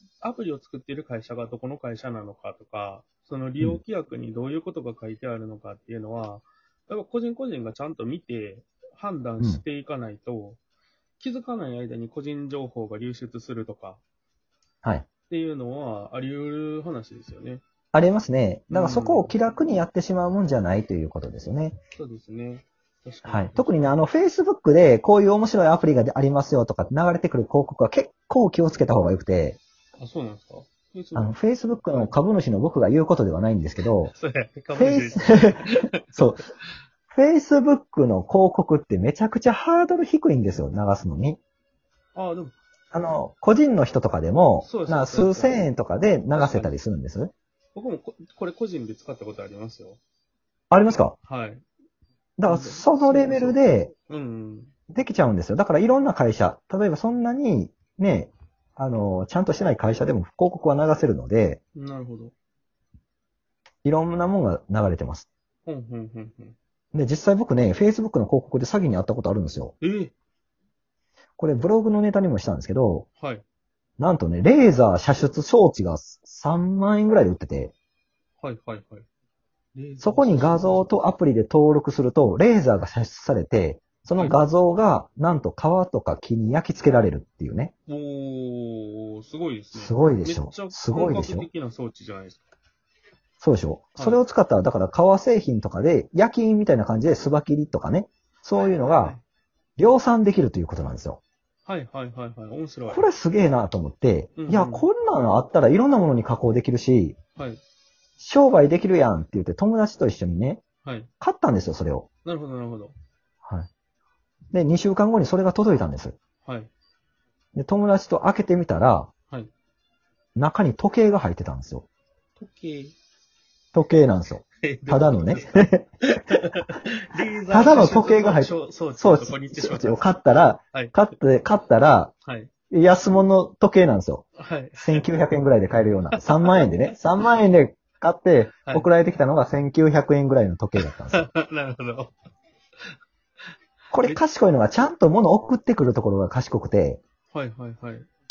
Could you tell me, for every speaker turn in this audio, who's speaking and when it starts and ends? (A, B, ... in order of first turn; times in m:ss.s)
0:00.2-0:10.6 A
0:11.2-0:14.0 A
0:15.3-0:17.6 A
0:17.9-0:21.8 B
0:18.7-0:19.3 A
0:22.0-0:24.0 A
0:23.2-0:29.6 B
0:30.0-0:32.1 A
0:31.2-0:34.1 B
0:34.1-0:36.2 A
0:34.8-0:36.4 B
0:37.1-0:41.4 B
0:42.2-0:42.5 A
0:42.9-0:47.3 B
0:44.6-0:45.6 A
0:46.3-0:46.8 A
0:47.8-0:50.0 A
0:50.7-0:51.2 B
0:51.2-0:51.6 A
0:52.4-0:53.9 B
0:52.5-0:54.7 A
0:54.9-1:01.6 B
1:01.8-1:02.3 A
1:03.8-1:05.3 B
1:05.7-1:06.6 A
1:06.9-1:09.8 B
1:09.8-1:10.1 A
1:11.4-1:13.1 B
1:13.2-1:13.4 A
1:14.0-1:17.7 B
1:18.4-1:19.1 A
1:19.8-1:20.9 A
1:20.0-1:27.7 B
1:24.2-1:24.4 A
1:27.9-1:32.4 A
1:29.7-1:31.5 B
1:33.4-1:39.2 B
1:38.8-1:39.2 A
1:39.8-1:41.2 B
1:41.6-1:43.0 A
1:42.9-1:47.2 B
1:44.4-1:44.9 A
1:47.4-1:47.6 A
1:48.2-1:50.6 B
1:50.8-1:51.1 A
1:51.2-1:52.1 B
1:52.2-1:52.9 A
1:54.5-1:56.2 B
1:56.4-1:56.7 A
1:57.6-1:59.1 B
2:00.4-2:01.9 B
2:02.4-2:03.0 A
2:03.7-2:05.9 B
2:04.6-2:10.1 A
2:07.5-2:12.1 B
2:12.2-2:12.5 A
2:12.7-2:21.3 B
2:14.4-2:15.0 A
2:16.1-2:16.6 A
2:20.8-2:22.1 A
2:23.9-2:27.0 B
2:27.3-2:28.1 A